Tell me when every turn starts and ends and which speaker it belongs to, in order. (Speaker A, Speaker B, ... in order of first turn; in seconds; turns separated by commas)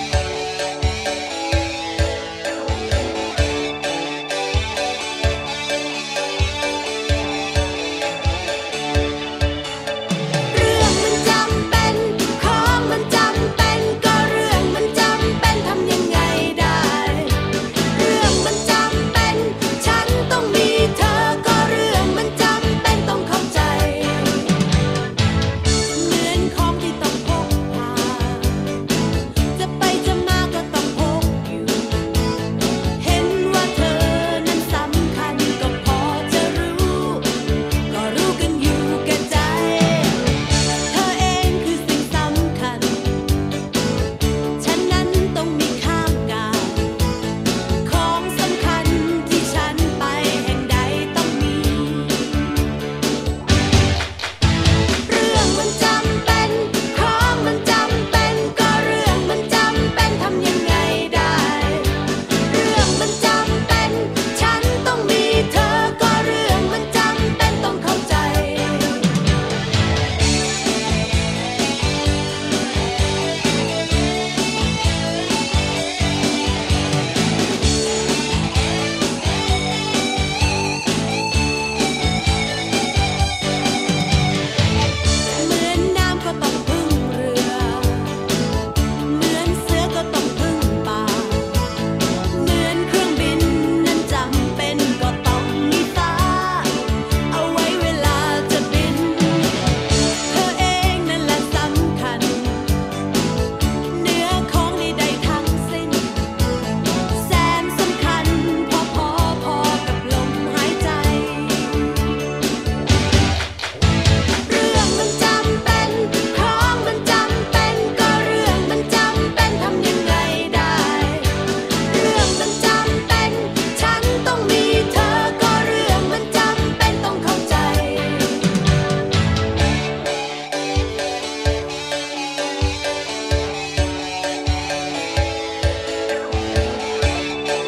Speaker A: 10.5-24.6, Speaker A: 25.9-28.7, Speaker A: 29.5-32.0, Speaker A: 33.0-37.3, Speaker A: 37.9-40.3, Speaker A: 40.9-43.2, Speaker A: 44.6-46.9, Speaker A: 47.8-52.4, Speaker A: 55.1-69.1, Speaker A: 85.3-88.3, Speaker A: 89.1-102.8, Speaker A: 103.9-106.3, Speaker A: 107.0-111.9, Speaker A: 114.5-128.4